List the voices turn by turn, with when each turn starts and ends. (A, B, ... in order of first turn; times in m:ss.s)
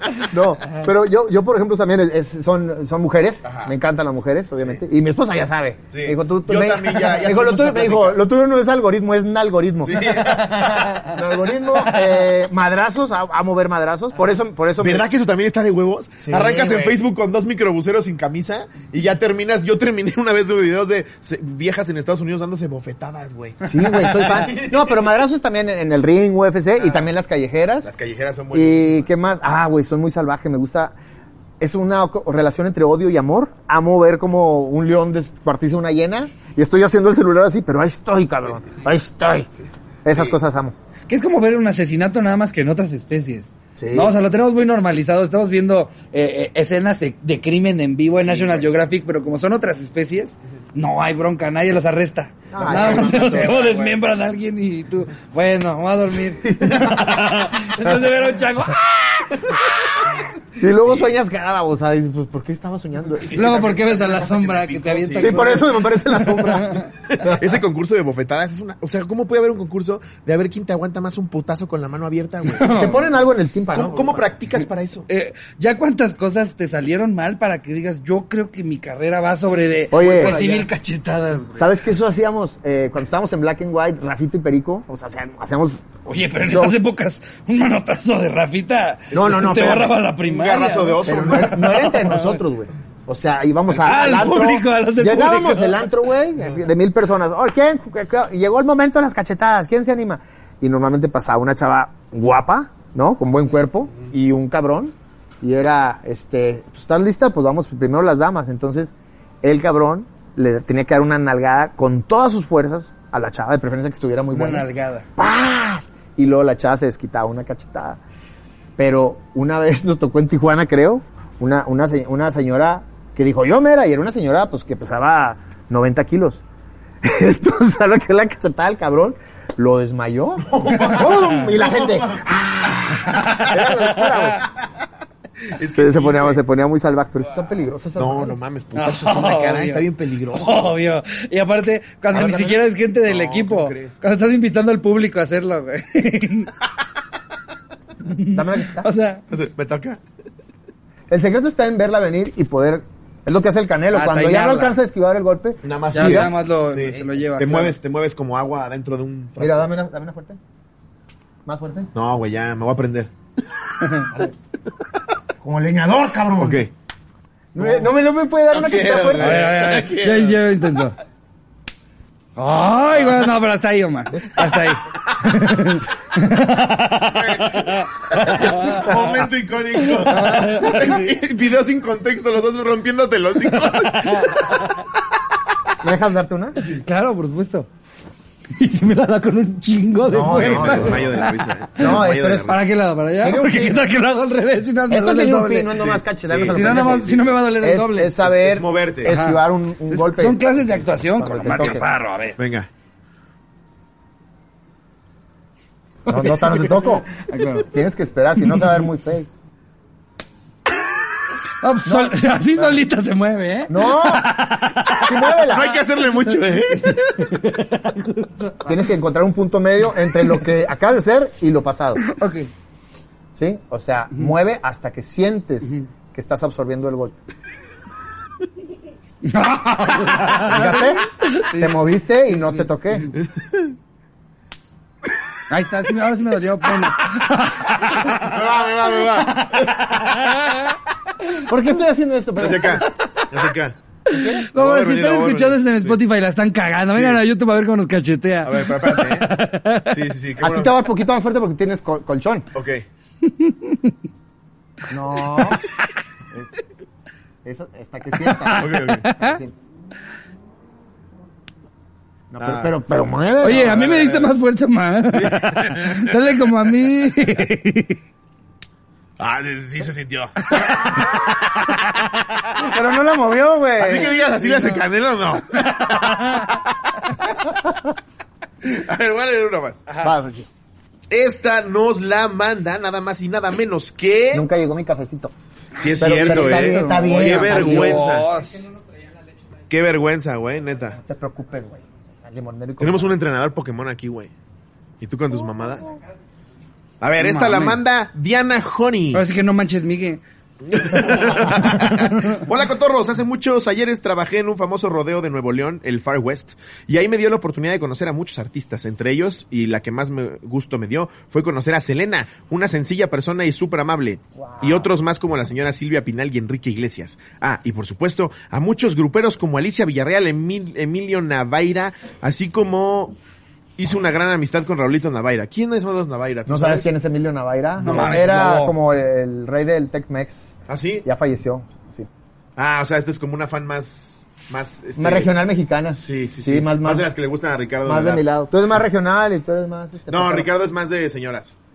0:00.2-0:15.0 A
0:03.4-0:03.7 B
0:04.6-0:04.8 B
0:05.9-0:08.2 B
0:09.8-0:10.5 B
0:10.0-0:11.2 C
0:11.7-0:12.2 C
0:14.8-0:25.1 B
0:16.2-0:17.0 A
0:23.6-0:27.9 A
0:23.7-0:24.2 C
0:27.8-0:29.0 B
0:28.5-0:30.9 A
0:31.6-0:39.5 A
0:40.0-0:40.7 A
0:41.1-1:00.0 C
0:43.8-0:44.1 A
0:48.1-0:48.7 B
0:52.5-0:53.9 A
0:52.6-0:53.9 B
0:56.2-0:57.0 A
1:00.6-1:03.4 A
1:03.2-1:05.5 B
1:03.3-1:06.9 C
1:05.1-1:07.6 A
1:07.1-1:12.9 B
1:12.4-1:13.0 C
1:12.7-1:14.2 A
1:13.7-1:15.1 B
1:15.1-1:21.7 C
1:19.9-1:20.4 A
1:20.0-1:20.6 B
1:21.6-1:25.8 A
1:26.0-1:32.4 C
1:26.4-1:26.8 A
1:29.1-1:29.9 A
1:29.1-1:31.9 B
1:31.0-1:58.0 A
1:33.8-1:35.8 C
1:54.3-1:55.1 C
1:58.8-2:06.4 A
2:07.0-2:14.4 A
2:10.4-2:12.3 B
2:10.7-2:11.4 C
2:13.0-2:14.4 C
2:15.5-2:16.4 B
2:15.7-2:18.4 A
2:18.0-2:20.7 B
2:18.7-2:26.5 C
2:22.1-2:23.9 B
2:28.0-2:29.2 C
2:28.2-2:28.9 A
2:29.3-2:30.0 B
2:31.1-2:36.3 A
2:33.9-2:34.8 C
2:35.6-2:39.7 B
2:35.9-2:37.7 C
2:39.4-2:40.4 A
2:41.4-2:41.9 A
2:41.9-2:43.1 B
2:43.8-2:44.1 C
2:45.4-2:46.6 A
2:46.4-2:46.7 B
2:47.5-2:49.5 A
2:47.6-2:47.9 B
2:48.5-2:50.4 B
2:49.2-2:51.0 C
2:52.4-2:59.0 C
2:57.1-3:04.6 B
2:59.9-3:01.0 C
3:03.5-3:04.9 C
3:05.8-3:06.6 A
3:06.6-3:07.7 C
3:08.5-3:15.7 C
3:10.1-3:11.1 A
3:10.1-3:12.6 B
3:11.8-3:12.6 A
3:13.2-3:13.8 A
3:14.9-3:20.4 A
3:15.7-3:17.3 B
3:16.5-3:18.2 C
3:18.2-3:19.1 B
3:19.0-3:22.4 C
3:21.2-3:21.8 A
3:22.4-3:22.7 B
3:26.1-3:27.1 A
3:26.1-3:27.7 C
3:27.7-3:29.3 A
3:31.6-3:35.5 C
3:31.8-3:32.8 A
3:33.7-3:34.3 A
3:35.0-3:35.8 A
3:35.5-3:37.4 B
3:36.8-3:38.8 C
3:38.6-3:42.0 A
3:42.0-3:42.5 C
3:43.3-3:47.2 A
3:49.2-3:51.8 C
3:50.3-3:53.1 A
3:55.5-3:58.3 C
3:58.1-3:59.8 B
3:59.1-4:01.4 C
4:01.4-4:02.8 A
4:02.4-4:03.8 B
4:02.8-4:03.3 C
4:04.1-4:09.9 C
4:04.1-4:04.4 A
4:04.5-4:06.0 B
4:06.9-4:07.2 B
4:08.4-4:09.3 B
4:09.9-4:10.7 B
4:10.4-4:12.5 A
4:12.6-4:12.8 B
4:13.2-4:13.9 C
4:14.9-4:15.6 A
4:17.4-4:19.6 A
4:18.2-4:19.4 C
4:18.6-4:19.1 B
4:22.3-4:24.3 A
4:22.4-4:22.7 B
4:23.4-4:28.0 C
4:25.1-4:26.1 B
4:29.2-4:30.5 B
4:30.6-4:31.2 C
4:32.6-4:34.2 A
4:33.8-4:36.6 B
4:34.5-4:34.8 C
4:35.9-4:36.6 C
4:38.6-4:39.8 B
4:39.9-4:40.1 C
4:40.0-4:40.5 A
4:41.1-4:44.4 B
4:44.3-4:45.3 A
4:45.8-4:48.3 B
4:45.8-4:48.7 C
4:46.0-4:48.1 A
4:49.7-4:51.0 B
4:51.0-4:53.2 A
4:52.8-4:54.3 B
4:55.0-4:55.9 B
4:57.0-4:59.2 B
4:57.2-4:57.8 C
4:59.1-5:00.2 C
5:00.6-5:23.2 B
5:01.2-5:02.4 C
5:14.4-5:14.9 A
5:23.8-5:26.9 B
5:26.5-5:32.1 A
5:27.8-5:28.7 C
5:30.7-5:31.0 B
5:32.6-5:35.3 B
5:35.0-5:37.1 A
5:35.9-5:38.2 B
5:37.8-5:40.5 A
5:40.1-5:41.6 B